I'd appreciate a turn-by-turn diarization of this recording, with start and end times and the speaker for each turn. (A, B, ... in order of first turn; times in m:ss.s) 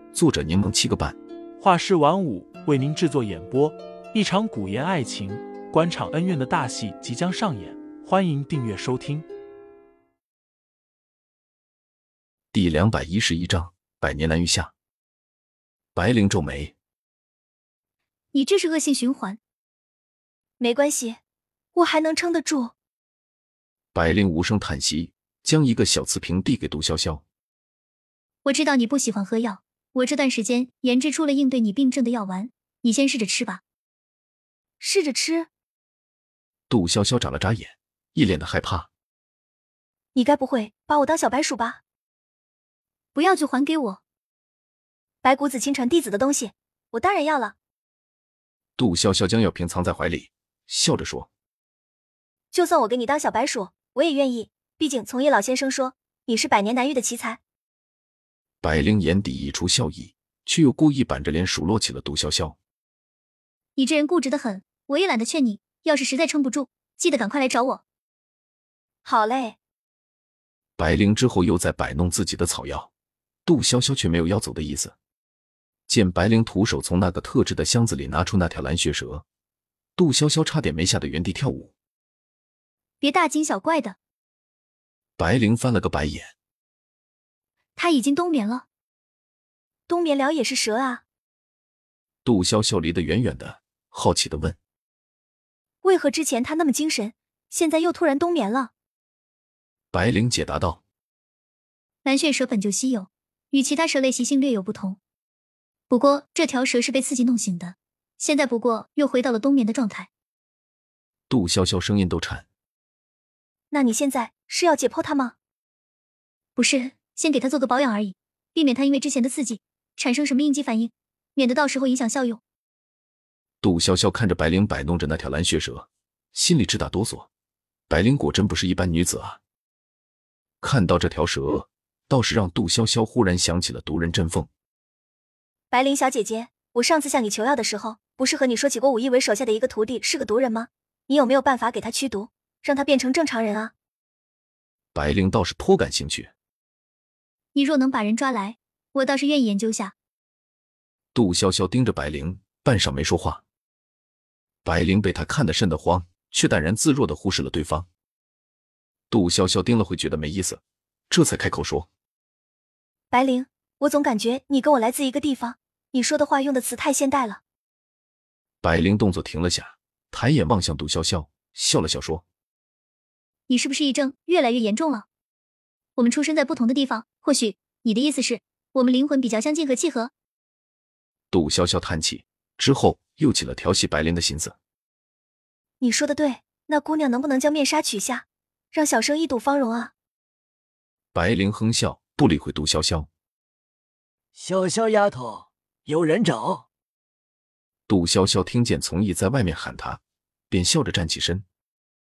0:00.1-0:01.2 A
0:01.6-0:09.3 B
0:12.5-0:14.7 A
0:16.0-0:16.8 A
0:18.3-0:19.4 C
0:20.6-0:21.2 D
0:21.8-0:22.7 D
0:23.9-0:27.2 A
0:28.4-0:33.6 C
0:34.8-0:35.5 D
0:36.7-0:38.9 A
0:40.2-0:41.8 D
0:43.2-0:44.0 C
0:45.2-0:47.6 D
0:48.8-0:51.3 A
0:52.5-0:57.4 D
0:58.6-1:02.6 A
1:03.8-1:07.8 C
1:09.0-1:09.6 D
1:10.8-1:12.9 A
1:13.5-1:15.0 A
1:15.9-1:19.2 A
1:20.0-1:21.7 A
1:23.0-1:24.0 C
1:25.2-1:26.3 A
1:27.8-1:28.6 C
1:29.9-1:31.0 D
1:32.2-1:34.6 A
1:35.8-1:38.7 D
1:39.9-1:40.8 A
1:42.0-1:45.0 C
1:45.9-1:50.1 C
1:51.3-1:52.5 A
1:53.7-1:55.4 D
1:56.6-2:02.4 C
2:03.6-2:07.3 A
2:07.9-2:09.4 A
2:10.6-2:14.5 A
2:15.7-2:23.7 D
2:24.9-2:26.3 A
2:27.5-2:30.0 C
2:31.1-2:33.4 A
2:34.6-2:37.9 A
2:39.1-2:41.9 A
2:43.1-2:47.4 D
2:48.6-2:52.2 A
2:53.5-2:55.1 C
2:56.0-3:00.1 C
3:01.3-3:04.6 A
3:05.8-3:09.9 D
3:11.1-3:13.1 A
3:14.4-3:16.6 E
3:17.9-3:21.4 A